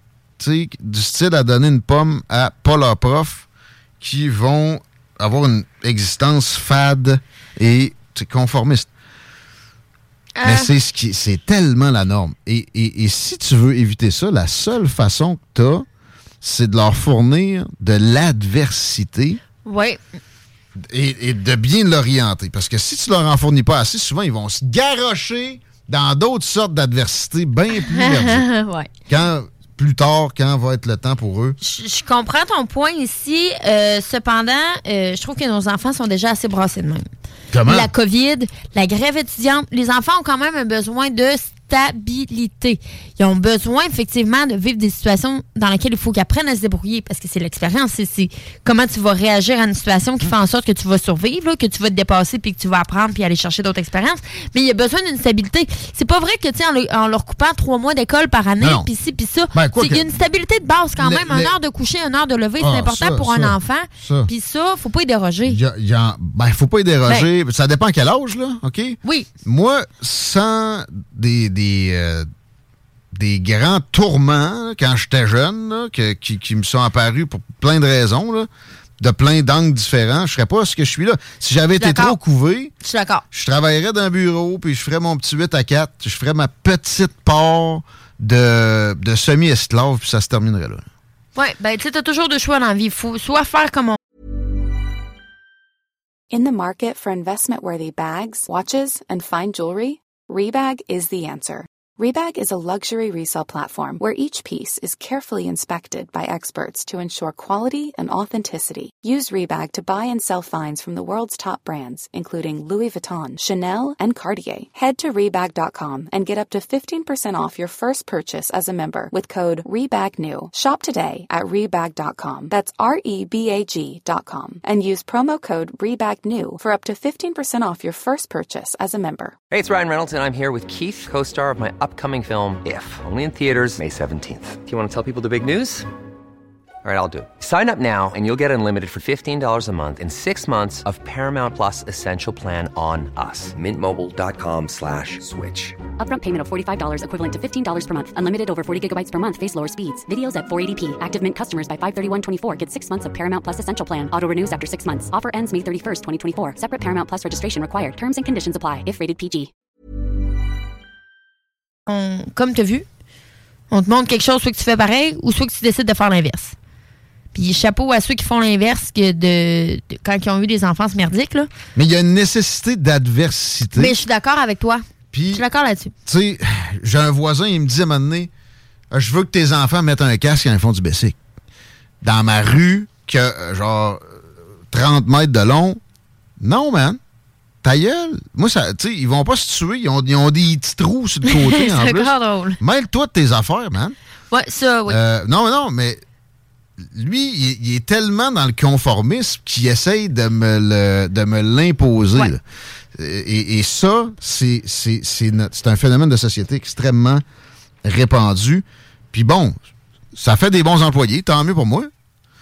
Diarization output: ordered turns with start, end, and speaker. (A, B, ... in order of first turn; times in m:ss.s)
0:00.4-0:03.5 A
0:04.0-0:08.9 A
0:10.4-0:10.7 B
0:10.4-0:15.8 A
0:16.4-0:19.4 A
0:19.6-0:20.0 B
0:20.9-0:28.4 A
0:27.9-0:28.9 B
0:29.1-0:31.6 A
0:31.6-0:37.0 B
0:37.5-0:37.9 A
0:37.7-1:05.6 B
0:59.5-1:00.1 A
1:01.0-1:01.5 A
1:02.6-1:04.3 A
1:05.5-1:12.3 A
1:09.0-1:09.3 B
1:13.1-1:18.5 A
1:19.0-1:22.7 A
1:21.8-1:22.2 B
1:22.8-1:23.2 B
1:23.3-1:30.8 A
1:31.4-1:34.0 B
1:36.3-2:09.4 C
2:09.5-2:15.9 D
2:16.8-2:25.8 D
2:26.0-2:39.5 E
2:41.9-2:42.8 B
2:43.7-2:46.6 B
2:47.3-2:51.5 B
2:51.8-2:53.9 A
2:53.8-2:55.9 B
2:55.1-2:55.4 A
2:56.1-2:58.3 A
2:58.9-3:01.2 A
3:02.0-3:04.2 A
3:04.7-3:05.8 A
3:06.4-3:07.0 A
3:07.6-3:14.0 A
3:11.3-3:12.6 B
3:14.3-3:15.0 B
3:14.9-3:16.0 A
3:16.9-3:22.4 A
3:23.0-3:27.2 A
3:27.8-3:29.6 A
3:30.2-3:31.9 A